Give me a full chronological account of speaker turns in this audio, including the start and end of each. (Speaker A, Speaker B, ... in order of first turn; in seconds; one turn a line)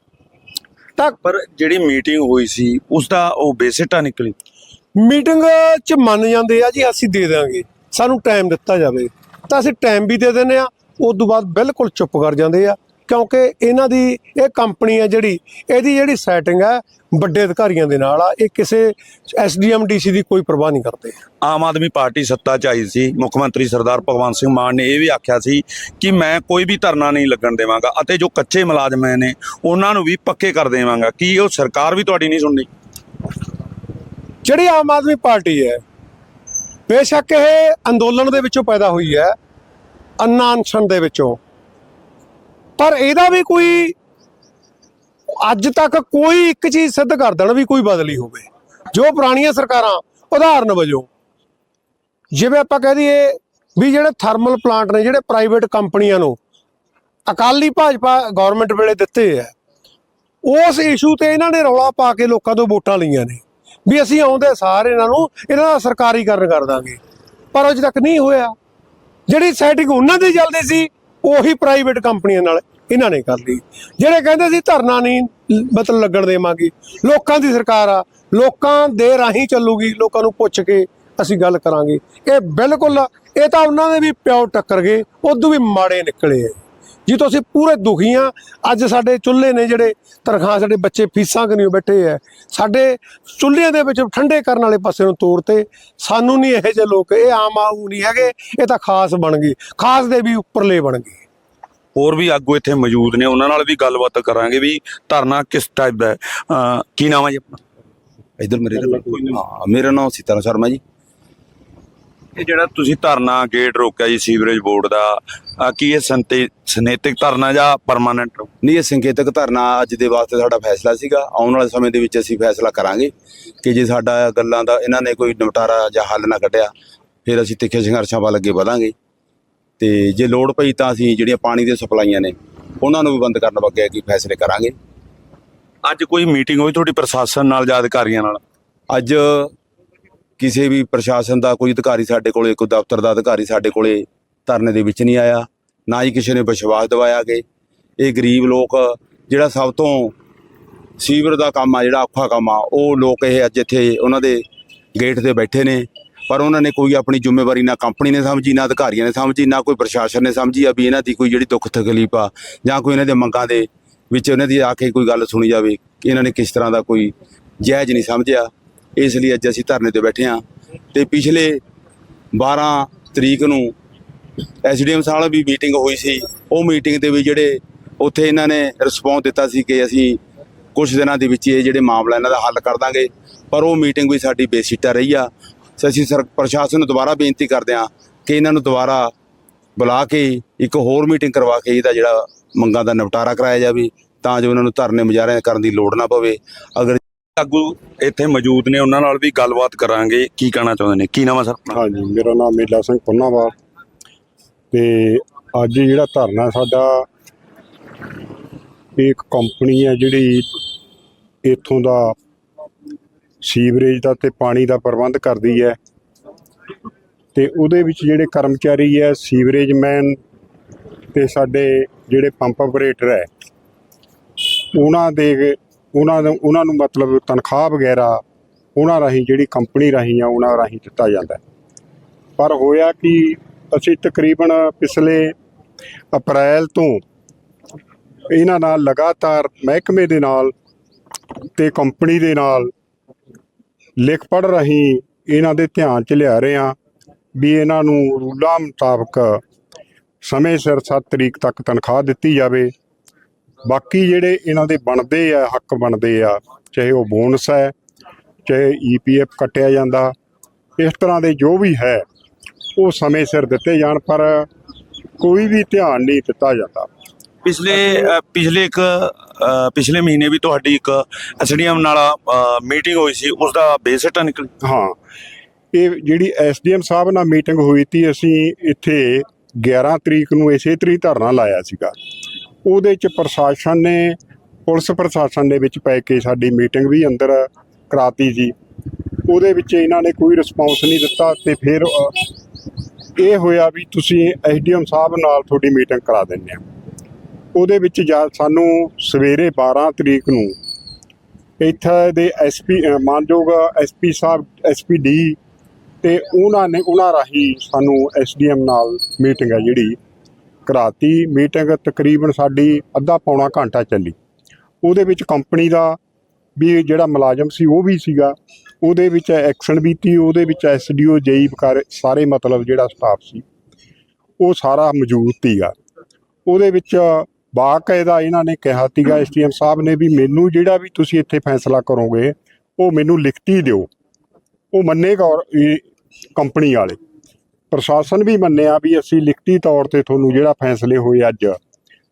Speaker A: 1.2-4.3
Speaker B: 5.0-21.2
Speaker A: 21.4-32.7
Speaker B: 34.4-35.8
Speaker B: 36.9-39.4
Speaker B: 40.2-41.4
Speaker B: 42.8-44.0
Speaker B: 45.4-51.1
Speaker B: 52.3-56.4
Speaker B: 57.3-59.5
Speaker B: 60.4-67.0
Speaker B: 67.5-68.5
Speaker B: 69.3-101.2
Speaker A: 102.0-107.6
Speaker C: 108.4-110.8
Speaker A: 108.8-109.4
Speaker A: 112.4-118.5
Speaker C: 118.6-126.7
Speaker C: 127.2-128.9
Speaker C: 129.8-134.8
Speaker A: 135.8-138.4
Speaker C: 138.9-139.5
Speaker C: 140.4-147.4
Speaker C: 148.0-150.2
Speaker C: 151.0-154.4
Speaker C: 154.9-171.6
Speaker C: 172.3-173.8
Speaker C: 174.6-180.2
Speaker C: 180.8-189.1
Speaker C: 189.8-197.0
Speaker A: 197.4-201.8
Speaker D: 201.7-203.5
Speaker D: 204.7-207.1
Speaker D: 209.0-210.5
Speaker D: 211.4-212.2
Speaker D: 213.4-215.8
Speaker D: 217.3-220.2
Speaker D: 221.1-223.3
Speaker D: 224.7-228.2
Speaker D: 228.8-231.4
Speaker D: 232.4-235.3
Speaker D: 236.1-237.0
Speaker D: 238.3-240.5
Speaker D: 241.6-242.7
Speaker D: 244.0-246.8
Speaker D: 247.4-249.4
Speaker D: 250.2-252.7
Speaker D: 253.7-257.7
Speaker D: 258.5-260.1
Speaker D: 260.8-262.0
Speaker D: 262.8-264.5
Speaker D: 265.2-266.9
Speaker A: 267.4-274.5
Speaker D: 274.6-275.0
Speaker D: 275.7-281.9
Speaker D: 282.7-288.5
Speaker D: 289.3-292.3
Speaker D: 293.2-296.6
Speaker D: 297.6-300.6
Speaker D: 301.6-305.4
Speaker D: 306.0-310.0
Speaker D: 310.7-314.2
Speaker D: 314.8-316.0
Speaker D: 316.6-323.4
Speaker D: 324.4-325.7
Speaker D: 326.5-333.9
Speaker D: 334.7-335.9
Speaker D: 336.4-337.0
Speaker D: 337.7-341.6